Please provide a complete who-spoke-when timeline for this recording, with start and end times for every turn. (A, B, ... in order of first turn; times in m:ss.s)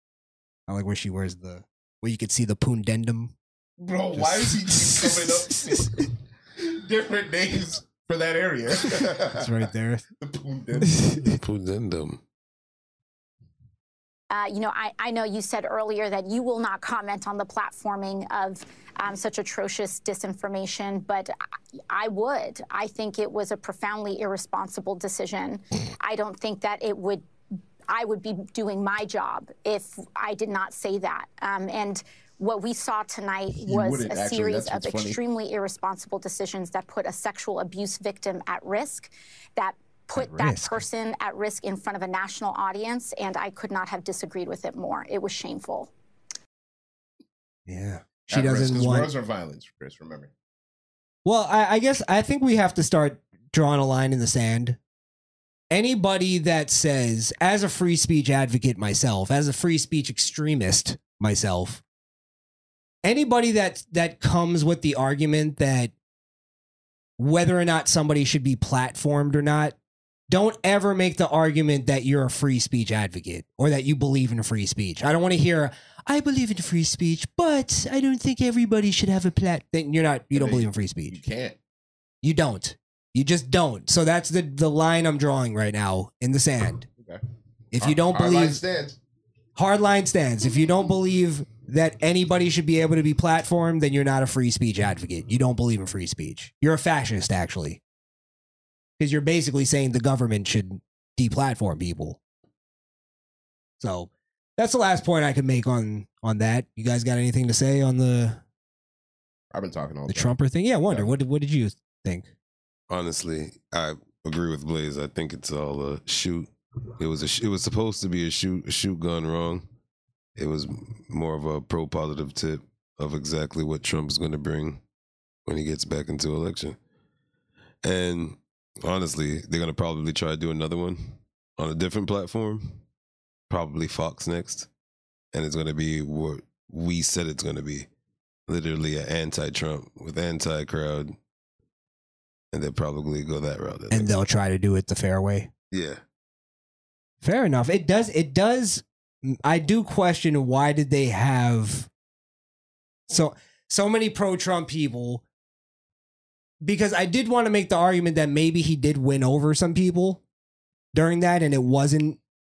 0:00.7-0:03.3 A
0:03.8-0:06.0 B
0:04.2-0:05.3 A
0:06.6-0:09.4 B
0:09.3-0:10.0 A
0:10.2-0:11.1 B
0:11.0-0:11.3 A
0:11.4-0:12.2 C
0:14.3-0:21.3 D
0:21.9-0:27.2 D
0:27.9-0:45.9 D
0:33.6-0:35.2 B
0:40.2-0:40.8 A
0:47.7-0:49.1 A
0:48.3-0:50.3 B
0:51.2-0:54.8 A
0:55.7-1:01.8 A
1:03.0-1:05.9 A
1:07.2-1:09.8 A
1:10.3-1:21.2 A
1:20.3-1:21.6 B
1:22.2-1:26.9 A
1:27.7-1:28.6 A
1:27.8-1:29.0 B
1:29.6-1:37.8 A
1:39.0-1:42.2 A
1:43.8-1:48.4 A
1:49.5-1:50.3 B
1:50.1-1:52.3 A
1:50.9-1:51.2 B
1:52.9-1:59.6 C
2:00.4-2:04.8 C
2:05.4-2:06.8 C
2:07.8-2:12.8 C
2:13.5-2:14.7 C
2:15.3-2:17.9 C
2:18.5-2:21.1 C
2:22.5-2:24.1 C
2:23.9-2:25.5 A
2:25.7-2:26.0 C
2:27.2-2:31.9 A
2:33.1-2:35.2 A
2:36.6-2:40.2 A
2:40.9-2:42.2 A